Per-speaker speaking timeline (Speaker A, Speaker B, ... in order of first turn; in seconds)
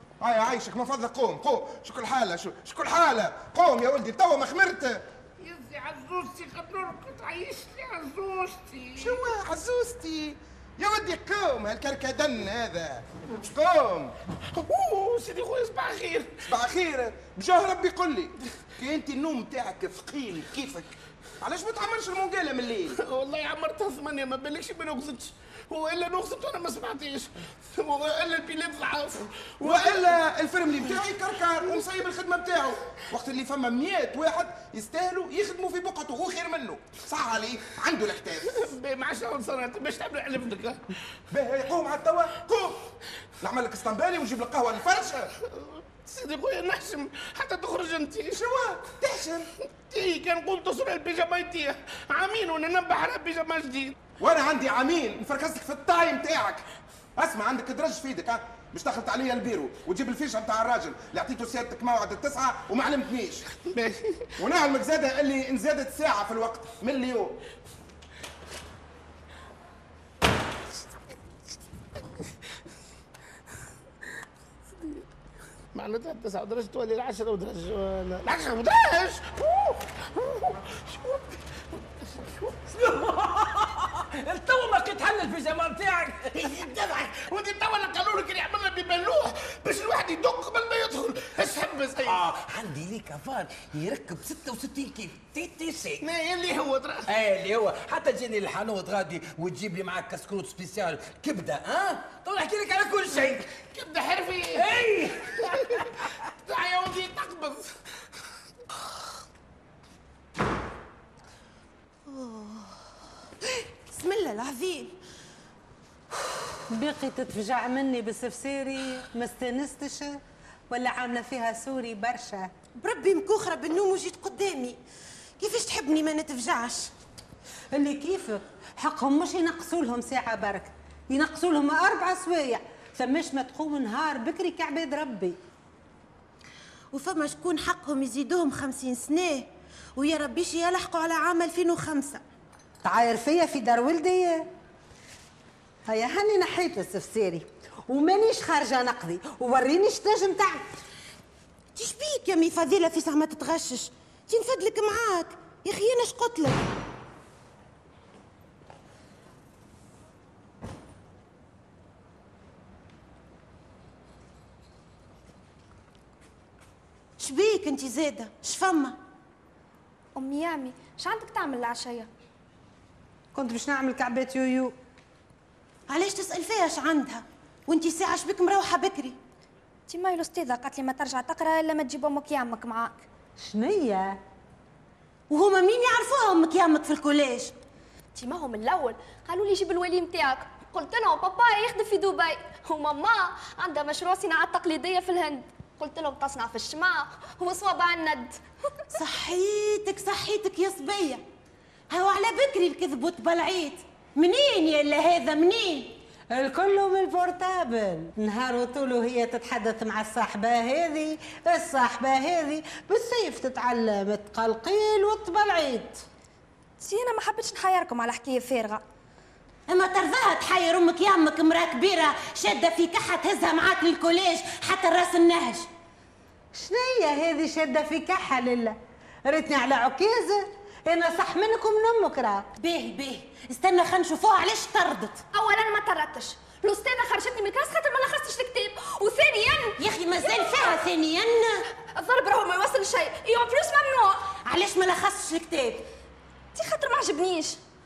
Speaker A: 0.2-5.0, 9.0-14.1, 16.4-23.0, 29.6-38.7, 41.3-42.9, 43.4-45.3, 48.3-49.5, 54.2-56.6, 57.1-63.5, 64.4-67.4
Speaker B: 5.4-9.2, 14.5-16.3, 22.9-30.2, 38.5-40.8, 45.5-48.4, 49.9-54.0, 63.6-64.3, 74.7-75.0, 75.7-81.3, 82.1-82.7, 86.3-92.2, 96.0-97.1, 103.6-104.7, 105.4-107.7
Speaker C: 82.8-86.6, 92.0-96.0, 97.1-103.5, 104.5-105.9
Speaker D: 112.1-112.7, 113.8-115.0, 122.8-124.8, 125.4-126.9, 136.9-142.2, 151.7-156.7, 167.2-169.0, 175.9-179.2, 185.3-187.5, 198.9-201.2, 201.9-206.0, 219.7-225.7, 232.5-235.2, 239.8-241.6, 244.4-245.8
Speaker E: 116.7-122.5, 127.7-135.4, 142.8-144.4, 145.9-150.7, 173.3-174.7, 183.4-184.2, 206.3-216.0, 226.5-232.5
Speaker F: 170.1-172.1, 179.9-183.1, 188.1-198.4, 216.8-218.8, 235.3-240.8, 241.9-244.3, 246.5-247.6